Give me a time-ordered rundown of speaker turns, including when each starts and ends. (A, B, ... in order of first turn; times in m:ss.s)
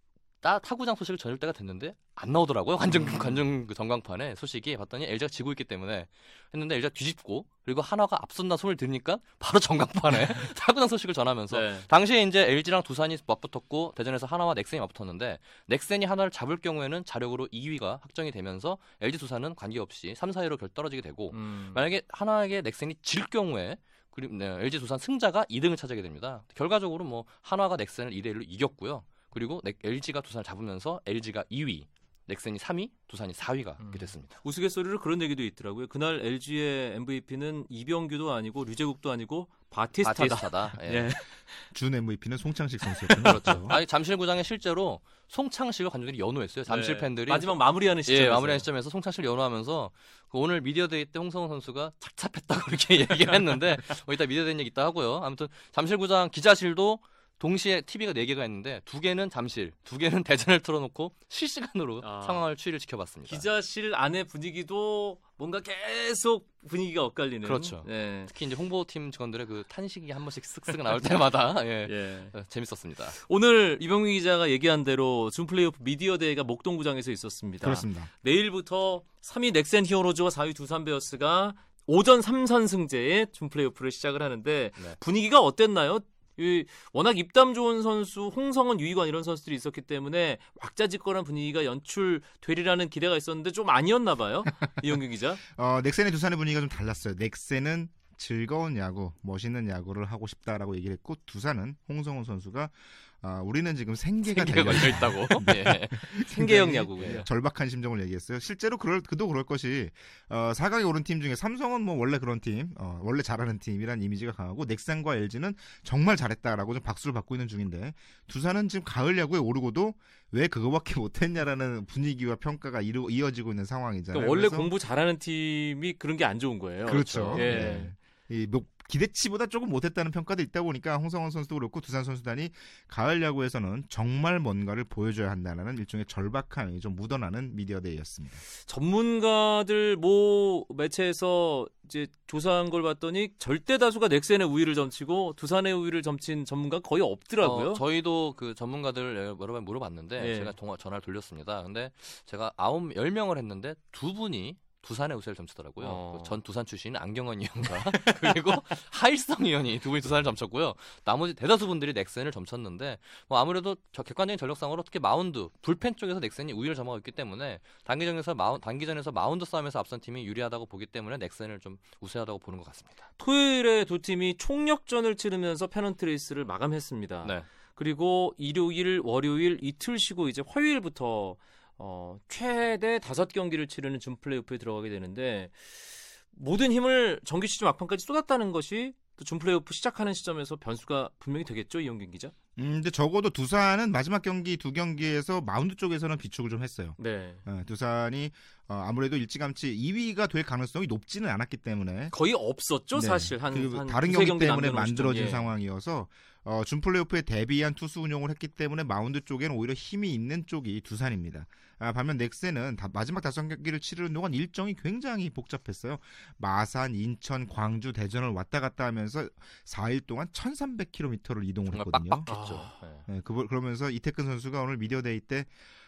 0:00.4-0:34.4 A
0:02.9-0:03.4 B
0:11.5-0:11.9 B
0:21.3-0:21.8 B
0:33.8-0:41.7 B
0:40.0-0:41.1 A
0:41.7-0:43.8 C
0:43.0-0:43.6 B
0:43.2-1:03.5 A
0:46.6-0:48.7 B
1:02.0-1:02.4 B
1:03.3-1:08.3 B
1:07.4-1:13.2 A
1:11.8-1:12.3 B
1:13.1-1:35.4 B
1:17.6-1:18.1 C
1:35.5-2:04.7 C
1:44.2-1:46.0 A
1:46.2-1:47.2 B
1:47.0-1:47.2 A
2:04.1-2:07.9 B
2:06.8-2:18.4 C
2:06.9-2:07.7 A
2:18.5-2:27.8 B
2:27.4-2:53.0 A
2:30.2-2:30.5 B
2:35.8-2:36.4 B
2:37.8-2:38.3 B
2:53.2-3:12.3 B
3:12.6-3:22.1 C
3:17.0-3:17.4 B
3:22.1-3:25.5 B
3:22.9-3:45.5 C
3:41.7-3:43.0 A
3:42.3-3:42.8 B